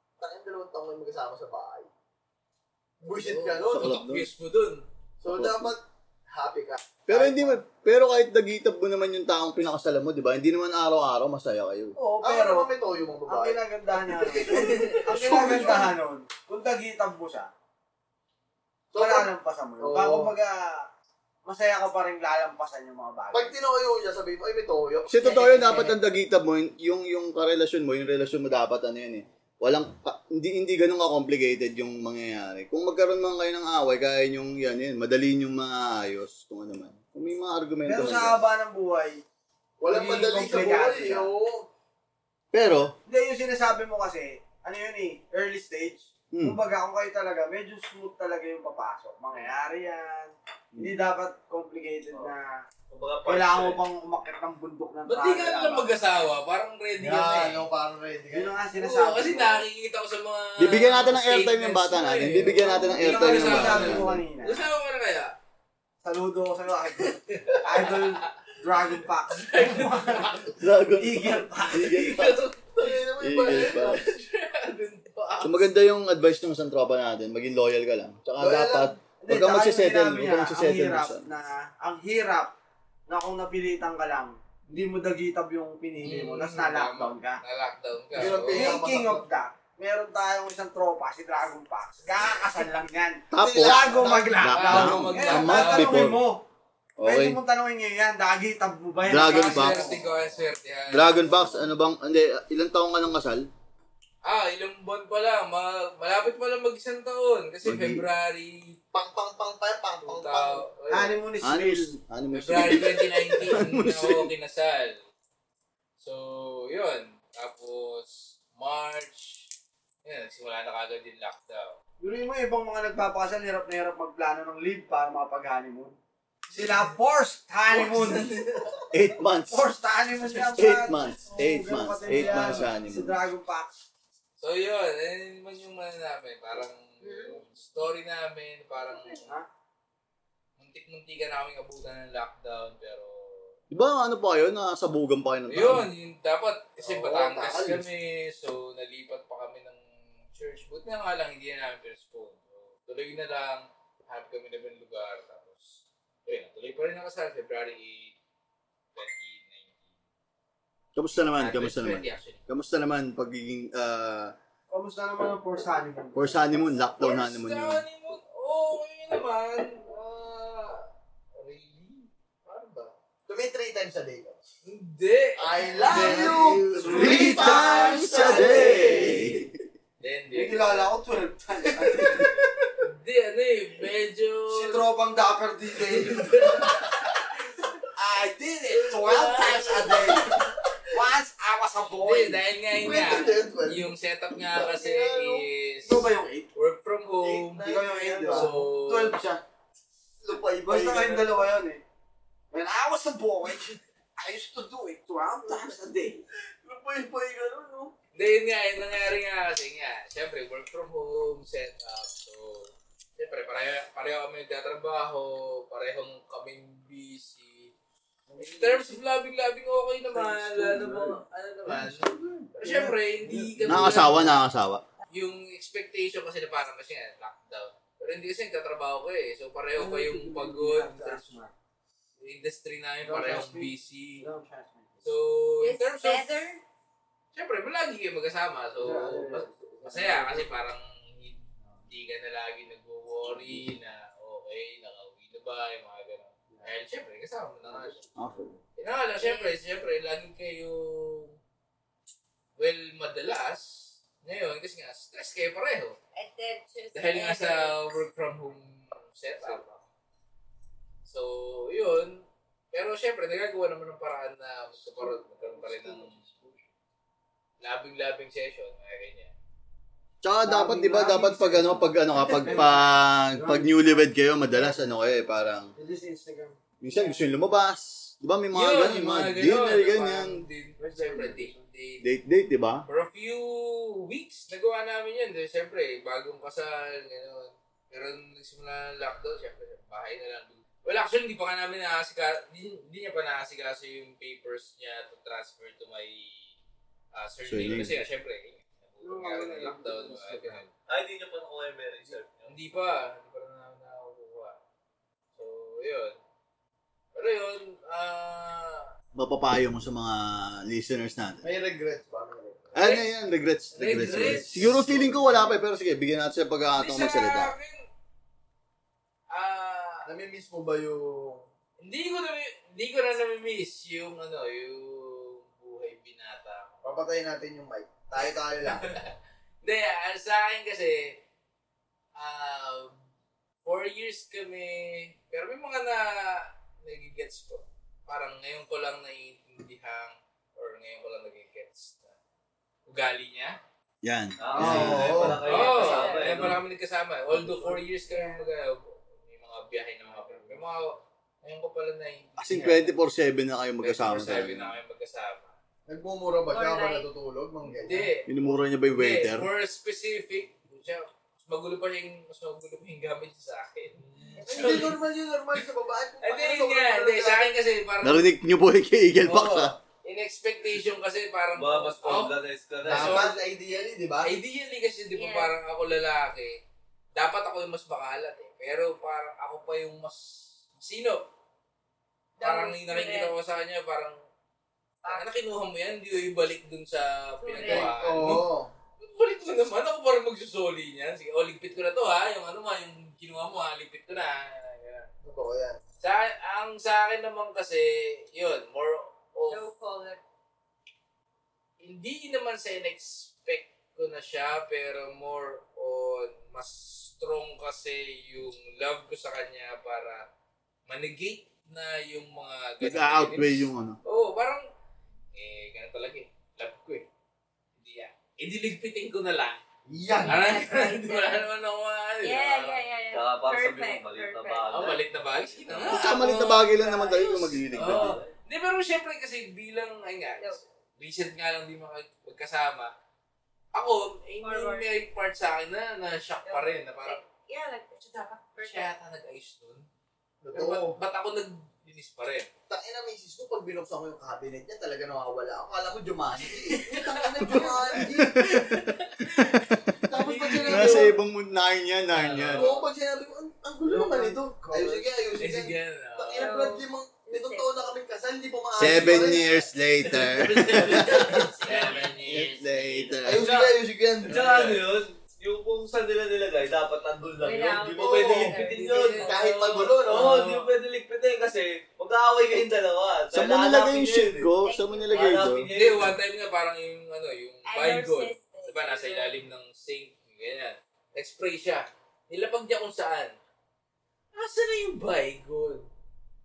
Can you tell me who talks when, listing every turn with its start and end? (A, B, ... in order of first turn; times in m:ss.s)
0:00.2-0:01.9 A
0:03.0-0:04.0 A
0:03.1-0:04.8 B
0:03.7-0:04.3 C
0:05.2-0:07.6 A
0:05.3-0:05.8 C
0:07.1-0:12.0 C
0:12.0-0:12.7 D
0:12.2-0:13.6 A
0:13.3-0:17.5 D
0:14.3-0:15.9 A
0:18.9-0:20.3 A
0:19.0-0:20.9 D
0:21.5-0:23.5 D
0:23.3-0:25.9 A
0:25.1-0:38.4 C
0:37.9-0:39.2 D
0:39.8-0:41.7 A
0:39.9-0:41.3 D
0:42.5-0:43.0 C
0:43.1-0:52.6 D
0:46.3-0:46.6 C
0:52.9-0:53.8 E
0:53.3-0:55.9 D
0:55.1-0:57.7 B
0:57.0-0:58.6 A
0:58.3-0:59.6 D
0:58.8-1:05.4 B
1:00.6-1:04.2 C
1:02.6-1:04.7 D
1:06.0-1:12.0 D
1:07.2-1:08.3 B
1:09.3-1:10.5 B
1:10.6-1:12.4 C
1:11.8-1:15.6 B
1:12.8-1:14.0 A
1:13.2-1:14.1 C
1:15.4-1:21.2 C
1:18.4-1:19.0 A
1:19.2-1:22.5 D
1:23.1-1:27.4 D
1:26.0-1:28.8 B
1:28.1-1:29.2 A
1:28.5-1:36.4 D
1:33.3-1:36.2 C
1:33.4-1:34.3 A
1:34.5-1:36.0 B
1:37.0-1:37.4 C
1:37.0-1:40.0 D
1:39.1-1:40.3 C
1:39.2-1:41.3 B
1:40.9-1:43.5 C
1:44.2-1:48.8 B
1:47.6-1:48.0 C
1:48.9-1:50.6 A
1:50.0-1:51.2 B
1:50.9-1:51.9 D
1:51.4-1:54.3 C
1:52.3-1:55.0 B
1:56.0-1:59.5 B
2:00.0-2:01.8 B
2:02.0-2:06.0 D
2:06.5-2:08.4 D
2:06.5-2:06.8 B
2:07.7-2:08.6 B
2:08.9-2:09.6 C
2:09.5-2:13.7 D
2:10.6-2:13.2 C
2:12.1-2:12.7 B
2:14.4-2:19.3 B
2:20.6-2:23.5 B
2:23.7-2:25.9 C
2:25.5-2:29.8 B
2:26.8-2:27.9 A
2:30.3-2:38.2 B
2:39.0-2:39.8 B
2:41.0-2:44.4 C
2:41.4-2:42.4 B
2:44.7-2:46.8 D
2:46.2-2:47.8 C
2:47.0-2:50.8 B
2:51.4-2:52.9 B
2:53.3-2:54.4 A
2:54.6-2:59.2 B
2:55.4-2:59.4 A
2:55.9-2:59.5 C
2:56.8-2:59.2 D
3:00.0-3:00.9 B
3:00.3-3:02.4 D
3:01.9-3:02.3 C
3:02.8-3:04.9 B
3:04.5-3:06.7 D
3:05.9-3:07.2 B
3:07.9-3:10.3 D
3:08.8-3:10.0 B
3:09.5-3:10.8 A
3:10.9-3:12.4 D
3:12.0-3:17.7 B
3:12.7-3:15.5 A
3:15.8-3:16.5 D
3:17.2-3:19.4 A
3:17.6-3:18.6 D
3:18.2-3:19.2 B
3:20.2-3:21.4 A
3:20.6-3:21.8 D
3:22.5-3:26.2 D
3:26.6-3:27.9 A
3:28.2-3:37.7 B
3:38.3-3:38.8 D
3:38.4-3:44.4 B
3:40.1-3:41.2 D
3:41.7-3:42.4 A
3:41.8-3:44.4 D
3:43.7-3:44.8 C
3:45.1-3:51.3 B
3:49.8-3:51.5 D
3:52.2-3:54.2 B
3:53.0-3:55.1 D
3:55.0-3:56.5 B
3:55.6-3:56.6 F
3:57.3-3:59.3 B
3:58.8-4:00.5 D
3:58.8-4:00.4 A
3:59.8-4:08.0 B
4:07.6-4:08.0 D
4:08.2-4:08.5 C
4:08.8-4:11.4 B
4:09.2-4:09.6 F
4:12.6-4:16.0 B
4:16.2-4:17.8 F
4:16.9-4:19.8 B
4:21.0-4:26.2 B
4:25.0-4:26.5 D
4:27.6-4:29.3 B
4:30.2-4:35.7 C
4:30.4-4:34.0 D
4:35.8-4:37.1 D
4:36.8-4:40.4 C
4:38.5-4:42.0 B
4:40.8-4:41.6 D
4:42.0-4:42.9 C
4:42.9-4:56.5 B
4:57.1-5:00.7 B
4:57.5-4:58.0 C
4:59.0-5:00.6 D
5:00.9-5:02.5 E
5:02.5-5:04.6 B
5:05.4-5:06.2 B
5:07.2-5:08.9 B
5:09.2-5:11.5 C
5:11.4-5:12.8 A
5:12.8-5:17.5 C
5:13.7-5:15.5 B
5:14.0-5:14.4 A
5:16.8-5:17.9 B
5:19.3-5:20.1 B
5:20.0-5:21.5 A
5:21.8-5:26.8 B
5:26.8-5:28.9 A
5:28.2-5:31.2 B
5:32.2-5:33.0 B
5:33.6-5:42.1 B
5:42.9-5:43.6 B
5:44.0-5:45.4 C
5:44.4-5:46.6 E
5:44.6-5:45.4 A
5:45.4-5:46.6 F
5:45.4-5:52.9 B
5:48.1-5:48.4 F
5:52.4-5:54.8 C
5:53.8-5:55.6 B
5:55.9-5:58.1 A
5:56.4-5:57.1 F
5:57.8-5:58.3 B
5:58.3-5:59.5 C
5:58.9-6:05.0 B
6:04.0-6:04.4 E
6:04.4-6:07.5 A
6:04.6-6:04.8 F
6:06.2-6:08.2 B
6:08.0-6:09.8 C
6:09.2-6:13.4 B
6:11.6-6:13.3 E
6:12.9-6:14.3 A
6:14.2-6:16.6 B
6:15.1-6:15.6 F
6:17.2-6:21.3 B
6:22.4-6:23.4 F
6:22.4-6:24.2 B
6:25.1-6:28.5 B
6:27.4-6:28.3 F
6:27.6-6:28.7 A
6:29.0-6:35.1 B
6:35.2-6:35.8 A
6:36.0-6:39.6 B
6:39.5-6:40.2 F
6:41.8-6:50.2 B
6:50.9-6:54.6 B
6:52.8-6:54.0 C
6:55.3-6:57.1 B
6:57.8-6:59.6 B
6:59.9-7:00.4 A
7:00.2-7:01.5 F
7:00.3-7:02.9 B
7:02.2-7:04.7 F
7:03.1-7:05.0 E
7:04.7-7:12.9 B
7:05.9-7:08.2 C
7:07.7-7:08.3 E
7:13.8-7:17.2 B
7:14.4-7:14.9 F
7:16.5-7:18.0 F
7:18.0-7:19.8 B
7:18.6-7:18.9 F
7:20.4-7:21.0 A
7:20.5-7:22.5 B
7:22.7-7:28.5 A
7:26.6-7:31.1 B
7:28.1-7:28.7 C
7:29.4-7:29.6 C
7:30.0-7:31.2 A
7:30.7-7:32.7 C
7:32.1-7:32.8 B
7:32.6-7:39.5 A
7:33.8-7:35.1 D
7:35.4-7:36.5 B
7:36.4-7:37.9 F
7:38.8-7:41.5 C
7:38.9-7:39.6 B
7:40.2-7:43.3 B
7:41.3-7:42.2 F
7:42.3-7:43.5 C
7:43.2-7:44.4 A
7:43.4-7:43.7 E
7:44.2-7:54.5 E
7:44.3-7:44.9 B
7:47.4-7:49.5 F
7:48.0-7:48.6 A
7:48.6-7:49.4 B
7:49.2-7:50.4 A
7:50.1-7:50.7 B
7:53.3-7:55.7 C
7:54.6-7:55.3 F
7:55.1-7:56.2 E
7:55.8-8:03.3 B
7:57.7-7:59.4 F
8:04.3-8:05.9 B